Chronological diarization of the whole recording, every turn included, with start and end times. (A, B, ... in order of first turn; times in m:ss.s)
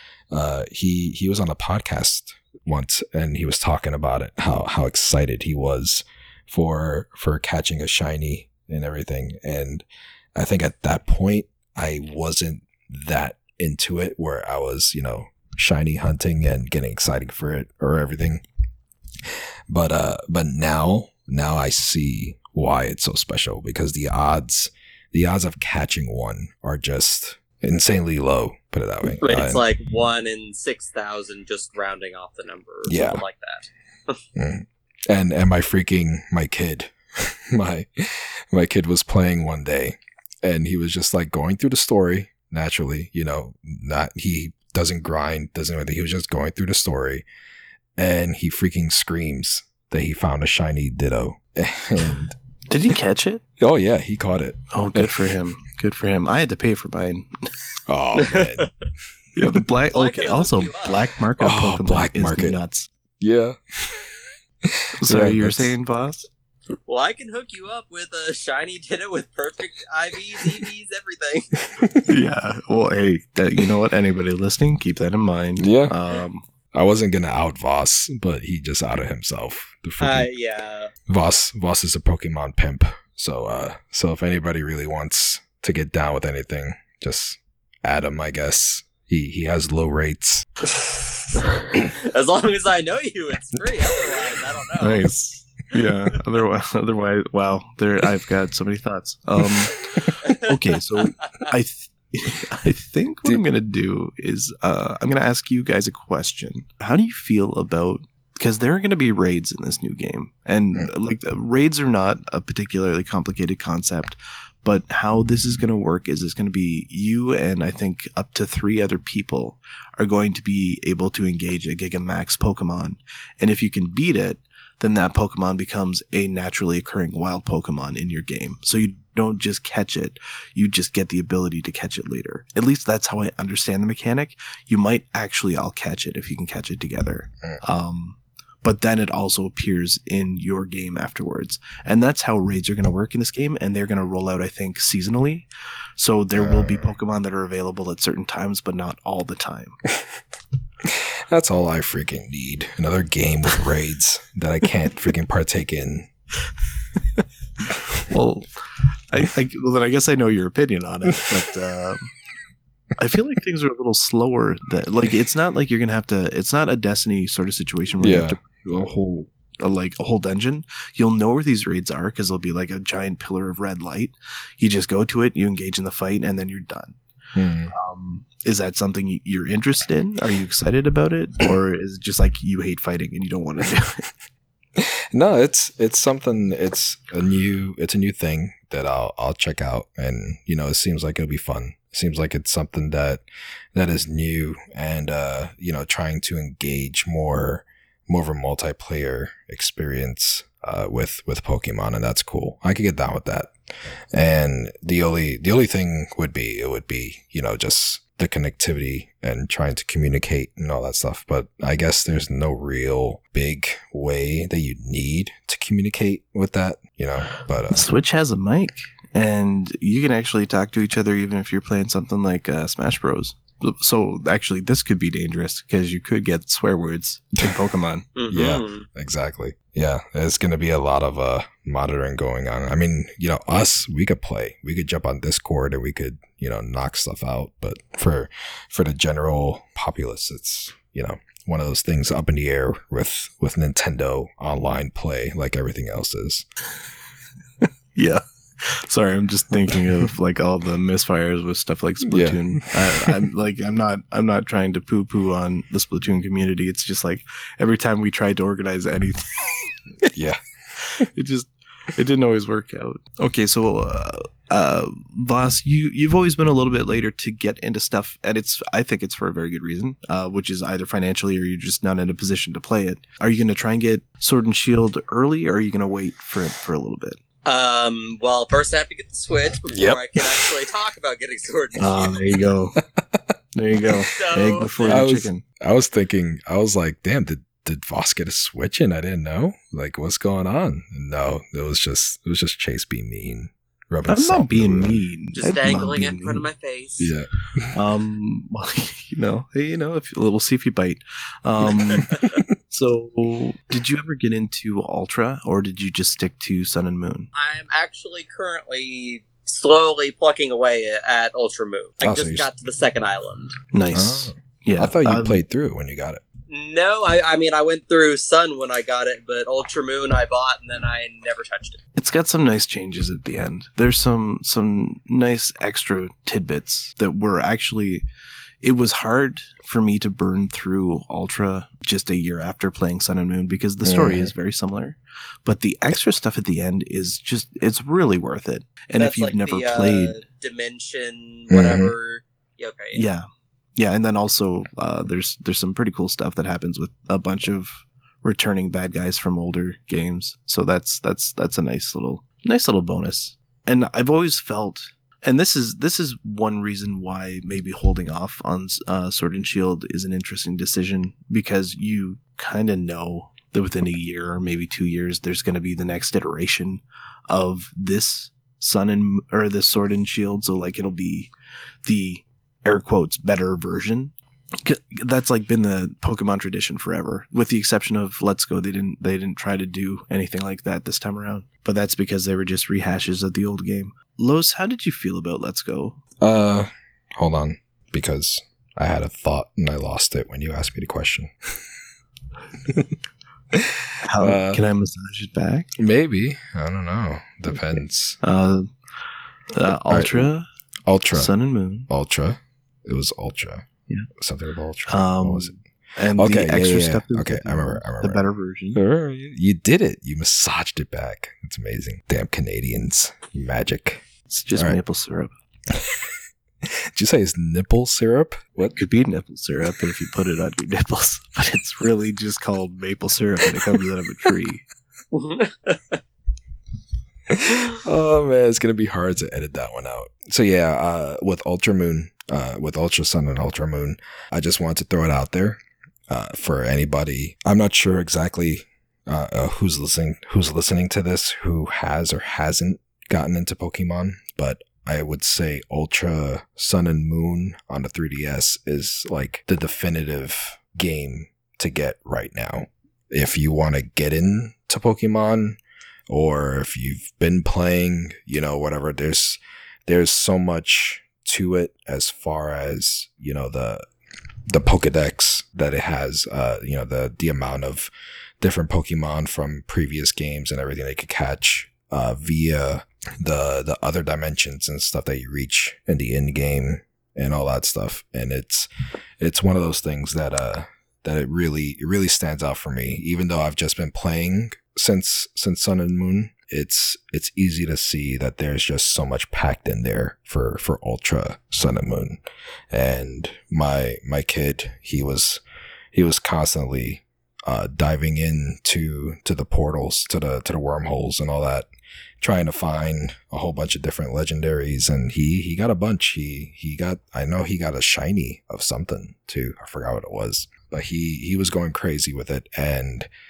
0:00.3-0:18.4 A
0:19.7-0:29.6 A
0:29.2-0:34.2 B
0:32.9-0:33.2 A
0:34.4-0:47.2 A
0:48.0-0:52.4 A
0:52.7-0:53.4 C
0:53.6-0:55.2 A
0:54.7-0:57.3 C
0:57.9-0:58.7 A
0:58.2-0:58.7 B
0:59.4-1:02.9 C
0:59.9-1:01.0 B
1:01.4-1:02.6 A
1:03.2-1:04.1 A
1:04.7-1:05.7 A
1:04.9-1:06.3 C
1:06.9-1:11.6 B
1:11.8-1:12.1 A
1:12.1-1:16.5 C
1:15.6-1:15.9 A
1:16.7-1:20.3 A
1:20.0-1:20.9 B
1:21.1-1:30.5 A
1:31.8-1:35.1 B
1:34.8-2:29.8 C
1:39.9-1:40.2 A
1:40.2-1:40.5 B
2:26.4-2:26.9 A
2:30.8-2:36.1 A
2:38.0-2:38.5 C
2:39.1-2:42.1 C
2:43.0-2:57.0 C
2:48.0-2:48.4 A
2:57.4-2:57.7 A
2:57.7-3:04.0 C
3:04.8-3:13.2 A
3:13.7-3:23.5 A
3:24.1-3:37.9 A
3:37.7-3:48.1 C
3:48.2-3:48.9 B
3:48.3-4:06.4 A
4:08.0-4:20.1 C
4:12.0-4:13.2 A
4:20.1-4:20.4 A
4:21.0-4:37.2 C
4:37.4-4:42.4 B
4:39.7-4:40.5 A
4:41.8-4:42.8 C
4:43.6-4:45.4 C
4:44.0-4:45.1 B
4:44.9-4:55.0 A
4:54.1-4:56.5 C
4:55.4-4:57.1 B
4:57.0-4:57.8 A
4:57.7-5:07.3 C
5:01.9-5:02.4 B
5:07.4-5:13.6 B
5:12.0-5:12.5 A
5:13.7-5:15.4 C
5:13.9-5:16.2 A
5:16.5-5:21.8 B
5:22.0-5:28.0 C
5:28.6-5:40.1 C
5:33.8-5:34.3 A
5:39.0-5:43.1 B
5:41.5-5:41.9 A
5:42.9-6:11.3 C
6:11.8-6:26.0 C
6:26.2-6:31.3 A
6:33.5-6:34.6 A
6:34.0-6:35.7 C
6:35.8-6:38.2 A
6:38.2-6:38.7 C
6:39.5-6:40.5 C
6:39.9-6:40.3 A
6:40.9-6:41.3 A
6:41.1-6:41.9 C
6:41.9-6:45.6 A
6:44.9-6:48.8 C
6:46.2-6:48.2 A
6:48.7-6:54.8 A
6:54.3-6:55.3 C
6:55.8-6:56.0 A
6:56.6-6:58.8 A
6:58.7-7:04.6 C
7:05.1-7:06.0 B
7:07.3-7:43.8 A
7:44.5-7:58.7 A
7:59.2-8:15.4 A
8:15.9-8:21.7 A
8:22.2-8:33.1 A